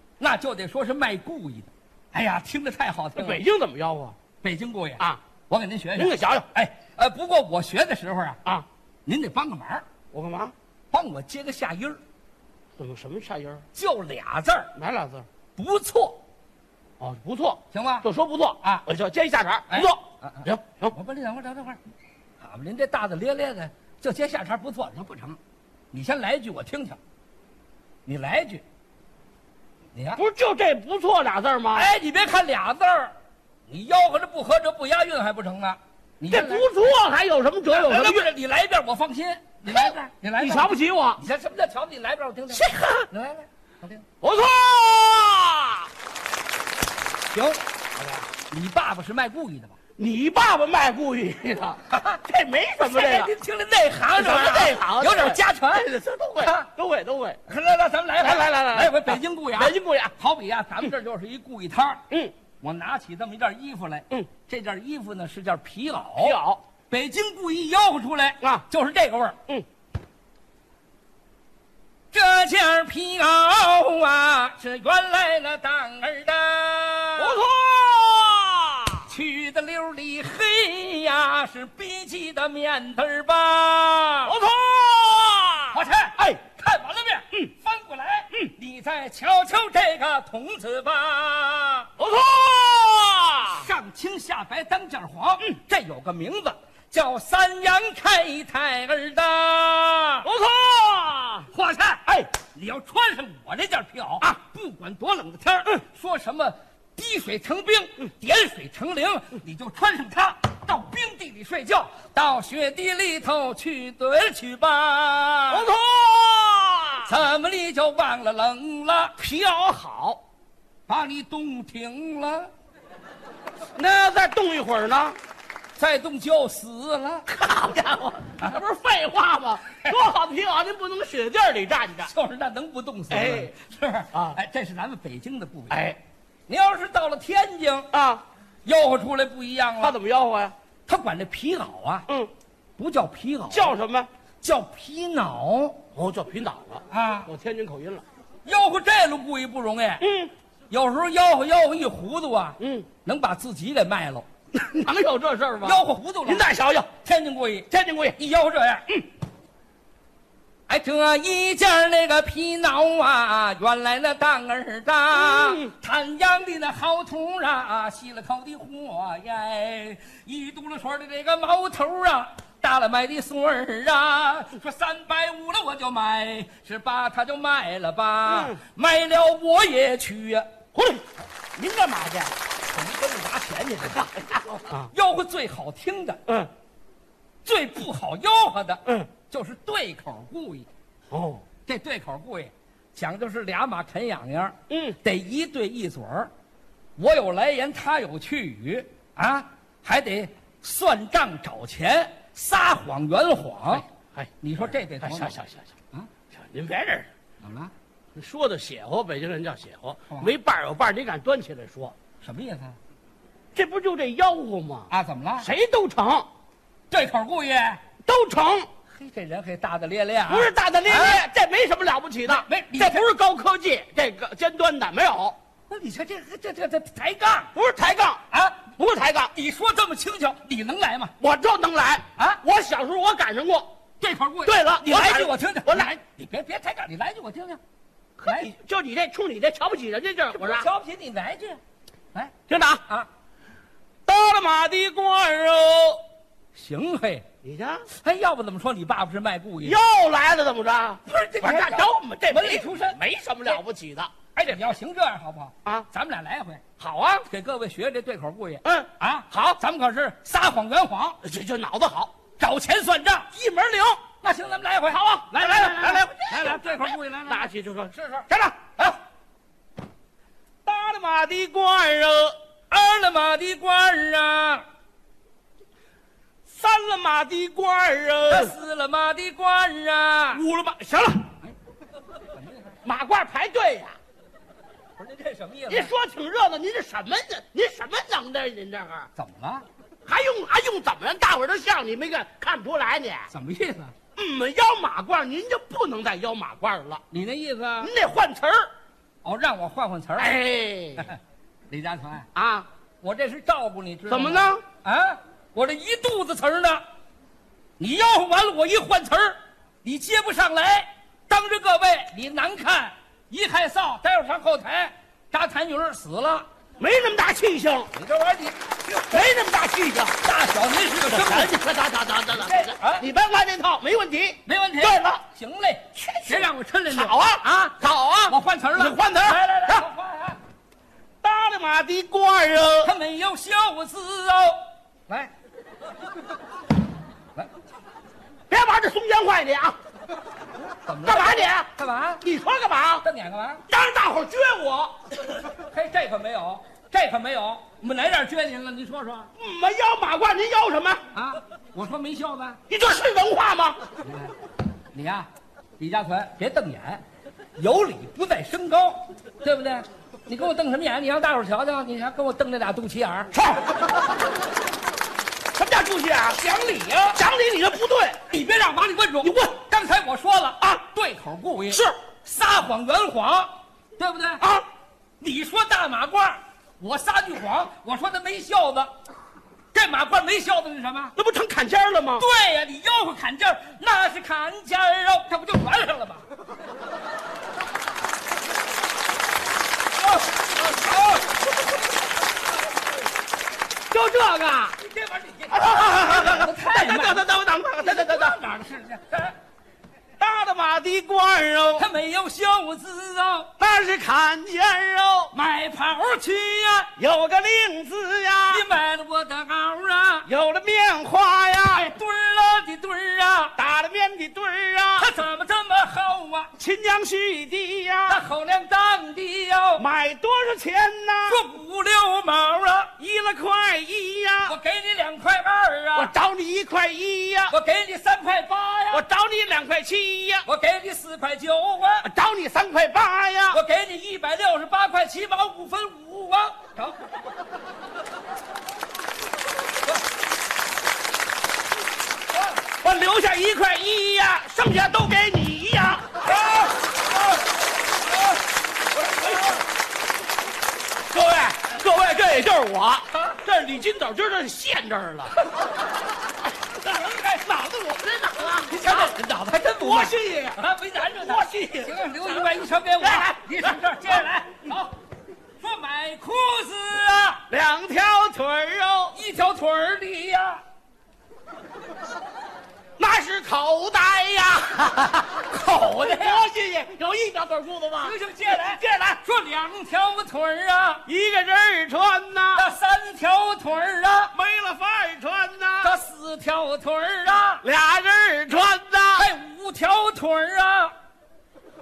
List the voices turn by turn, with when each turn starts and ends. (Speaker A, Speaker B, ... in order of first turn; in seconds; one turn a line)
Speaker A: 0.2-3.4
Speaker B: 3.1-4.2
Speaker A: 4.4-8.4
Speaker B: 6.0-6.5
Speaker A: 9.1-9.8
Speaker B: 10.1-10.5
Speaker A: 10.9-12.0
Speaker B: 12.8-13.6
Speaker A: 13.7-14.7
Speaker B: 14.7-15.2
Speaker A: 15.6-16.2
Speaker B: 17.0-20.9
Speaker A: 17.7-18.1
Speaker A: 19.7-21.8
Speaker A: 22.4-25.4
Speaker A: 25.9-27.0
Speaker A: 28.1-28.6
Speaker A: 29.9-30.2
Speaker B: 30.1-31.9
Speaker A: 31.7-33.1
Speaker A: 33.7-36.7
Speaker B: 36.3-38.3
Speaker A: 37.7-44.0
Speaker B: 39.7-41.2
Speaker B: 42.5-43.1
Speaker B: 44.2-45.9
Speaker A: 47.3-47.6
Speaker B: 47.9-48.3
Speaker A: 48.5-49.7
Speaker B: 50.0-53.3
Speaker A: 51.9-52.2
Speaker A: 52.8-55.9
Speaker B: 54.1-57.4
Speaker A: 56.4-56.7
Speaker A: 57.5-62.0
Speaker B: 58.2-60.1
Speaker A: 62.6-66.4
Speaker B: 66.2-66.6
Speaker A: 66.9-69.4
Speaker A: 72.1-77.4
Speaker B: 77.2-79.1
Speaker A: 79.1-84.3
Speaker B: 84.2-86.4
Speaker A: 85.7-91.9
Speaker B: 92.0-93.7
Speaker A: 93.5-100.3
Speaker B: 100.2-101.5
Speaker A: 101.5-115.7
Speaker B: 115.5-117.1
Speaker A: 117.0-119.2
Speaker B: 119.2-120.2
Speaker A: 120.9-122.5
Speaker B: 123.8-125.2
Speaker A: 125.8-127.3
Speaker B: 127.3-132.1
Speaker A: 132.1-135.8
Speaker B: 133.1-133.5
Speaker B: 134.1-134.4
Speaker B: 135.7-136.0
Speaker A: 136.5-137.9
Speaker B: 137.9-138.2
Speaker A: 138.6-139.9
Speaker B: 139.8-140.5
Speaker A: 140.9-142.1
Speaker A: 142.8-143.7
Speaker B: 143.5-144.1
Speaker A: 144.4-145.8
Speaker B: 145.9-148.0
Speaker A: 146.9-147.3
Speaker A: 148.4-150.0
Speaker B: 150.0-150.3
Speaker A: 150.7-154.3
Speaker B: 152.6-152.9
Speaker B: 154.5-156.9
Speaker A: 155.6-156.5
Speaker A: 157.0-158.9
Speaker B: 157.7-158.2
Speaker A: 160.7-180.5
Speaker B: 165.2-165.7
Speaker B: 178.2-178.6
Speaker B: 180.7-181.0
Speaker B: 181.6-182.3
Speaker A: 182.7-184.2
Speaker B: 184.2-184.9
Speaker A: 184.9-186.2
Speaker A: 187.4-190.7
Speaker B: 191.1-191.4
Speaker A: 191.7-196.3
Speaker B: 194.7-195.0
Speaker A: 197.0-203.8
Speaker B: 203.7-204.3
Speaker A: 204.4-205.3
Speaker B: 205.0-205.7
Speaker B: 206.3-207.1
Speaker A: 207.4-207.7
Speaker B: 208.1-211.9
Speaker A: 210.1-210.3
Speaker A: 212.2-212.8
Speaker B: 213.5-214.9
Speaker A: 214.9-215.5
Speaker B: 215.4-216.3
Speaker A: 216.9-217.8
Speaker B: 218.0-218.7
Speaker A: 218.9-221.2
Speaker B: 220.3-225.3
Speaker A: 222.3-223.0
Speaker A: 225.7-227.5
Speaker B: 227.5-229.3
Speaker A: 228.3-228.7
Speaker A: 229.3-231.1
Speaker B: 231.2-233.7
Speaker A: 234.0-237.6
Speaker B: 234.4-235.9
Speaker B: 238.2-240.7
Speaker A: 238.2-238.5
Speaker A: 240.3-241.6
Speaker B: 242.5-242.8
Speaker B: 244.1-246.0
Speaker A: 246.5-247.3
Speaker B: 247.4-247.8
Speaker A: 247.9-249.8
Speaker B: 249.6-254.6
Speaker A: 251.1-253.6
Speaker A: 254.3-256.6
Speaker B: 256.8-257.2
Speaker A: 257.3-261.2
Speaker B: 258.6-259.6
Speaker B: 261.2-262.1
Speaker A: 262.4-263.3
Speaker B: 263.3-264.0
Speaker A: 264.2-268.2
Speaker B: 264.9-268.9
Speaker B: 270.6-272.3
Speaker A: 272.7-274.6
Speaker B: 276.4-278.5
Speaker A: 278.3-280.4
Speaker B: 280.3-281.3
Speaker A: 282.3-282.8
Speaker B: 282.8-284.0
Speaker A: 285.0-285.9
Speaker B: 285.7-289.1
Speaker A: 289.1-289.6
Speaker B: 290.1-293.3
Speaker A: 293.3-293.9
Speaker B: 294.1-297.0
Speaker A: 297.1-297.9
Speaker B: 297.8-298.7
Speaker A: 299.2-300.4
Speaker B: 300.2-301.1
Speaker A: 301.0-302.3
Speaker B: 302.3-302.7
Speaker A: 303.0-306.8
Speaker B: 304.1-304.6
Speaker A: 307.8-316.5
Speaker B: 316.8-317.9
Speaker A: 317.9-319.2
Speaker B: 319.1-320.2
Speaker A: 320.2-321.6
Speaker B: 321.1-325.2
Speaker A: 322.3-323.1
Speaker A: 324.4-327.8
Speaker B: 325.9-329.9
Speaker A: 328.3-330.4
Speaker B: 331.2-332.9
Speaker A: 332.8-335.3
Speaker B: 338.5-339.8
Speaker A: 340.8-342.2
Speaker B: 341.0-341.7
Speaker B: 342.2-343.1
Speaker A: 343.0-343.6
Speaker B: 343.7-345.0
Speaker A: 345.5-349.3
Speaker B: 349.4-351.0
Speaker A: 351.1-352.6
Speaker B: 352.7-353.8
Speaker A: 354.0-354.3
Speaker A: 354.9-355.3
Speaker A: 355.8-357.0
Speaker A: 357.6-363.3
Speaker B: 363.3-363.7
Speaker B: 365.6-366.4
Speaker A: 366.3-367.2
Speaker B: 367.1-368.2
Speaker A: 368.3-374.4
Speaker B: 369.2-369.5
Speaker B: 371.7-372.0
Speaker A: 375.2-378.9
Speaker A: 379.7-381.1
Speaker B: 381.1-382.2
Speaker A: 382.2-386.3
Speaker A: 390.0-392.5
Speaker B: 393.9-394.8
Speaker A: 394.8-397.2
Speaker B: 395.5-398.4
Speaker A: 397.8-399.4
Speaker B: 400.2-401.9
Speaker A: 401.8-403.5
Speaker B: 403.6-405.3
Speaker A: 405.3-406.9
Speaker B: 407.0-408.7
Speaker A: 408.5-410.3
Speaker B: 410.2-411.9
Speaker A: 411.7-413.6
Speaker B: 413.6-415.1
Speaker A: 415.0-416.5
Speaker B: 416.6-418.2
Speaker A: 418.1-419.8
Speaker B: 419.8-421.4
Speaker A: 421.3-422.9
Speaker B: 423.0-424.5
Speaker A: 424.4-426.1
Speaker B: 425.9-427.5
Speaker A: 427.5-429.0
Speaker B: 428.9-430.4
Speaker A: 430.4-432.1
Speaker B: 432.0-433.6
Speaker A: 433.5-437.2
Speaker B: 442.8-446.3
Speaker A: 446.2-447.4
Speaker A: 448.1-448.4
Speaker B: 449.1-449.4
Speaker A: 449.1-449.6
Speaker B: 451.1-455.3
Speaker A: 453.1-453.4
Speaker A: 456.8-457.4
Speaker B: 457.3-459.1
Speaker A: 458.7-464.9
Speaker B: 459.8-460.6
Speaker B: 461.1-463.8
Speaker A: 465.6-467.4
Speaker B: 467.5-469.2
Speaker A: 469.1-470.6
Speaker B: 473.0-479.2
Speaker A: 475.5-476.4
Speaker A: 478.0-481.1
Speaker B: 481.1-482.6
Speaker A: 482.5-484.3
Speaker B: 484.3-485.9
Speaker A: 485.8-487.6
Speaker B: 487.6-489.3
Speaker A: 489.1-490.9